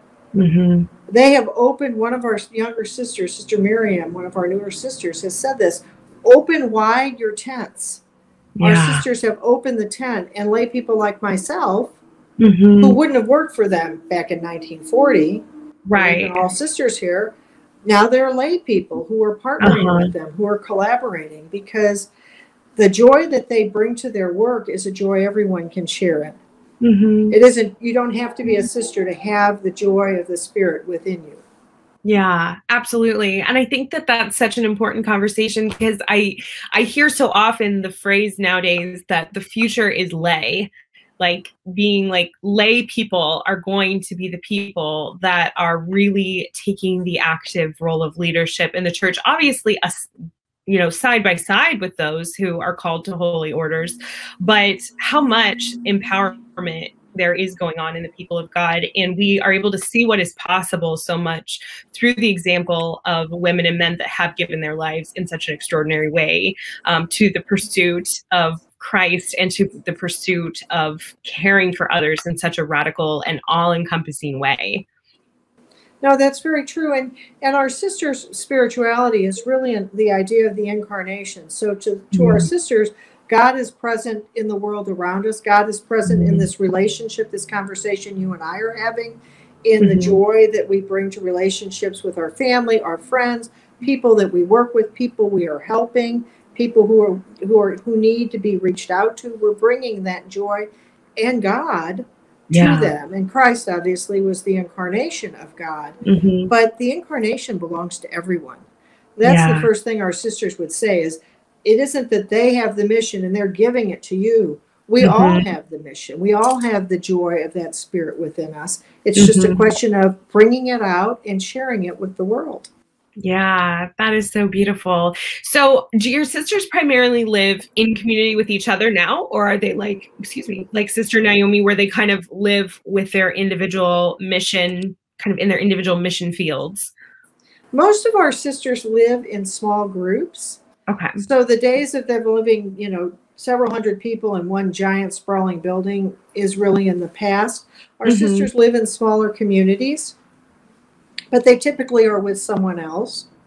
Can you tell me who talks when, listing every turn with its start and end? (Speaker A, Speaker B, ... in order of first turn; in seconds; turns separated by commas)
Speaker A: 0.3-0.9, Speaker B: 1.1-8.0, Speaker A: 8.6-9.0, Speaker B: 8.6-12.0, Speaker A: 12.4-13.0, Speaker B: 12.8-17.3, Speaker A: 15.9-16.4, Speaker B: 17.9-22.1, Speaker A: 19.6-20.1, Speaker B: 22.8-26.4, Speaker A: 26.8-27.3, Speaker B: 27.3-31.4, Speaker A: 32.0-50.1, Speaker A: 50.7-74.8, Speaker B: 76.0-100.7, Speaker A: 82.1-82.5, Speaker A: 86.1-86.5, Speaker A: 89.8-90.2, Speaker B: 101.2-106.0, Speaker A: 102.5-102.9, Speaker A: 106.0-106.5, Speaker B: 106.5-108.6, Speaker B: 109.2-122.7, Speaker A: 109.2-109.7, Speaker A: 115.0-115.5, Speaker A: 119.2-119.6, Speaker A: 123.2-136.9, Speaker B: 137.7-140.6, Speaker A: 140.9-141.2, Speaker B: 141.2-150.1, Speaker A: 148.0-148.5, Speaker B: 151.3-153.3